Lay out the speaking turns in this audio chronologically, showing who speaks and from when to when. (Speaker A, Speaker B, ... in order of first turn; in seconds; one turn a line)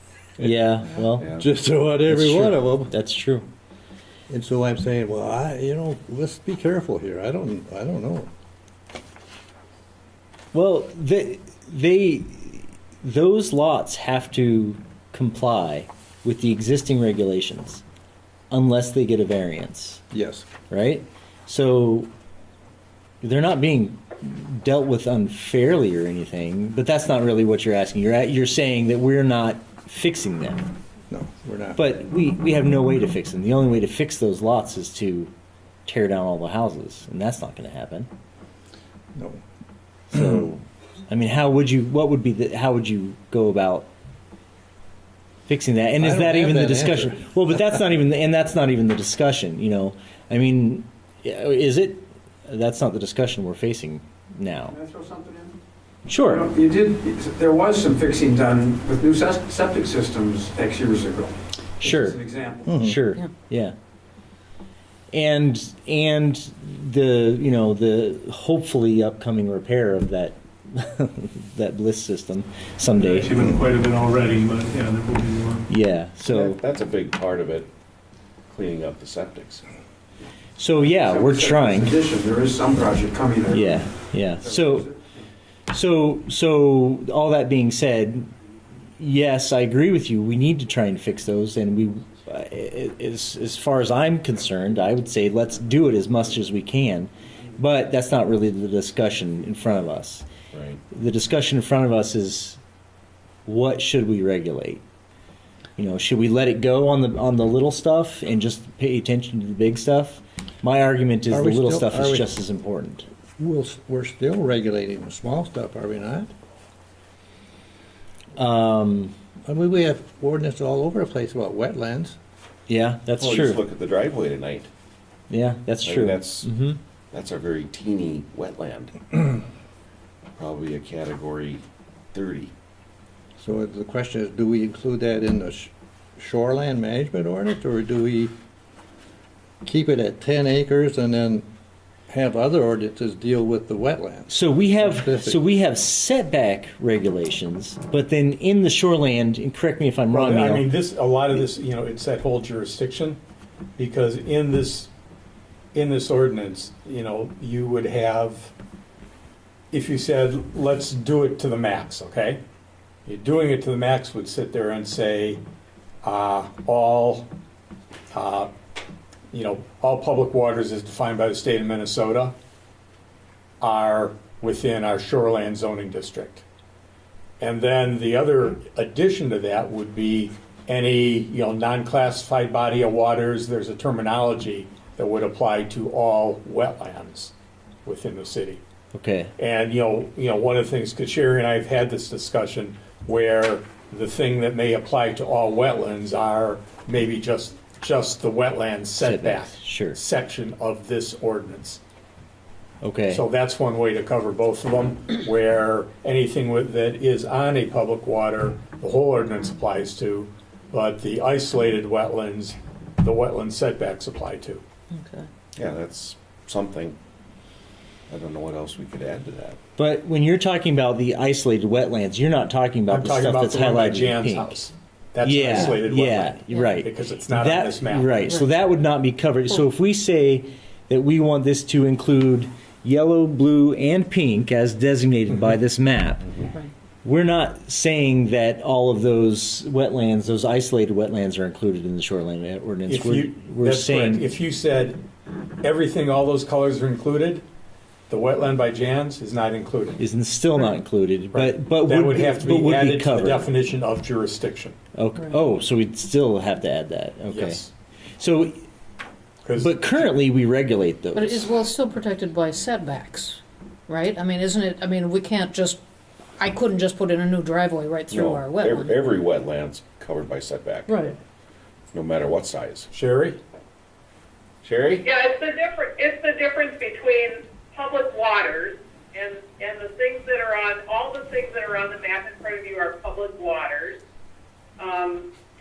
Speaker A: 0.4-1.3
Speaker B: 1.3-2.9
Speaker A: 2.1-3.5
Speaker B: 4.3-8.3
Speaker A: 10.5-17.8
Speaker A: 18.5-20.0
Speaker B: 20.1-20.5
Speaker A: 20.7-22.1
Speaker A: 23.2-30.7
Speaker B: 31.1-31.8
Speaker A: 31.8-35.3
Speaker A: 35.9-38.1
Speaker A: 40.1-43.9
Speaker A: 45.5-54.8
Speaker B: 46.0-47.3
Speaker C: 54.7-55.5
Speaker A: 56.1-56.5
Speaker C: 56.3-62.6
Speaker A: 61.8-62.2
Speaker B: 62.7-63.0
Speaker A: 62.7-63.7
Speaker A: 65.1-73.4
Speaker D: 73.0-75.6
Speaker A: 75.7-76.6
Speaker E: 76.3-77.7
Speaker E: 78.5-79.7
Speaker A: 80.6-82.0
Speaker C: 81.0-83.7
Speaker A: 83.5-84.9
Speaker A: 85.7-88.3
Speaker A: 89.0-100.2
Speaker E: 100.5-100.8
Speaker A: 100.9-102.6
Speaker A: 103.5-104.8
Speaker A: 105.8-113.1
Speaker B: 111.3-112.3
Speaker B: 113.4-116.3
Speaker A: 118.4-119.1
Speaker B: 119.5-122.2
Speaker A: 122.7-123.6
Speaker E: 123.2-124.7
Speaker A: 125.3-126.8
Speaker E: 125.8-126.5
Speaker E: 127.1-128.9
Speaker E: 130.4-132.5
Speaker B: 133.4-138.3
Speaker B: 139.7-141.5
Speaker B: 142.1-145.4
Speaker A: 144.3-150.7
Speaker F: 150.1-153.2
Speaker F: 153.8-154.9
Speaker F: 155.7-158.5
Speaker F: 159.7-162.4
Speaker F: 163.1-165.4
Speaker F: 166.0-167.3
Speaker F: 168.1-168.5
Speaker F: 169.3-172.3
Speaker F: 173.6-176.4
Speaker F: 177.4-187.3
Speaker F: 187.9-188.6
Speaker A: 188.9-189.3
Speaker F: 189.4-201.8
Speaker A: 199.0-200.0
Speaker A: 202.8-203.2
Speaker F: 203.1-214.6
Speaker G: 214.9-215.3
Speaker E: 215.6-217.0
Speaker E: 218.1-219.6
Speaker A: 219.8-224.6
Speaker F: 222.9-228.3
Speaker A: 225.2-236.3
Speaker G: 226.5-226.8
Speaker A: 237.0-244.2
Speaker F: 242.9-245.0
Speaker F: 245.6-247.4
Speaker F: 248.1-250.0
Speaker A: 250.0-253.5
Speaker F: 251.3-254.8
Speaker A: 254.9-257.6
Speaker F: 257.3-257.7
Speaker A: 258.2-258.6
Speaker F: 259.4-260.1
Speaker A: 259.6-261.5
Speaker G: 261.1-265.8
Speaker G: 266.4-269.1
Speaker E: 268.1-270.9
Speaker G: 270.9-271.2
Speaker E: 271.9-272.9
Speaker F: 272.9-273.4
Speaker E: 274.6-275.0
Speaker H: 275.0-284.0
Speaker H: 284.8-285.3